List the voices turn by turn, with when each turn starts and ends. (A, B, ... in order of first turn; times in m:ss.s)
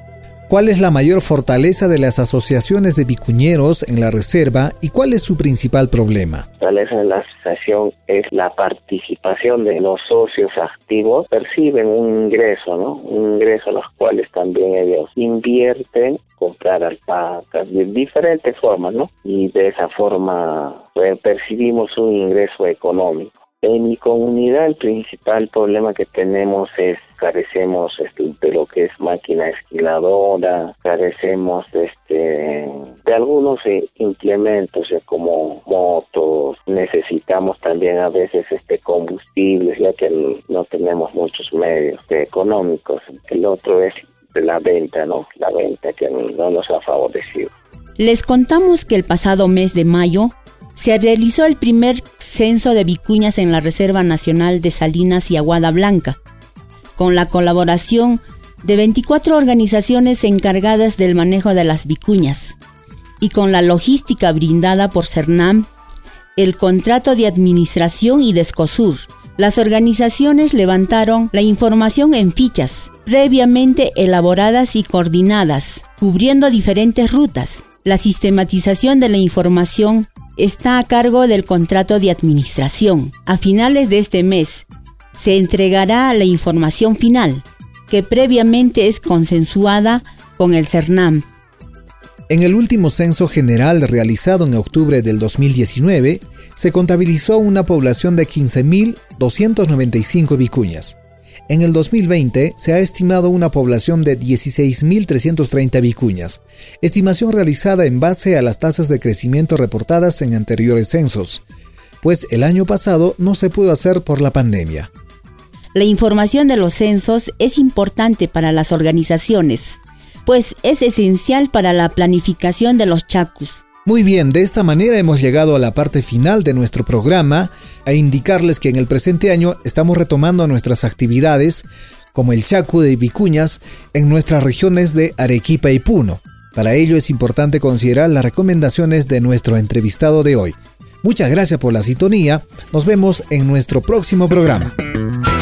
0:00.5-0:06.4 A
0:06.6-0:47.5 B
0:48.0-0:56.2 C
0:57.0-1:02.6 C
1:03.2-1:05.7 C
1:06.4-1:31.2 C
1:32.3-1:41.0 A
1:41.5-1:51.4 A
1:52.0-1:54.9 A
1:55.7-2:03.6 C
2:03.8-2:24.8 A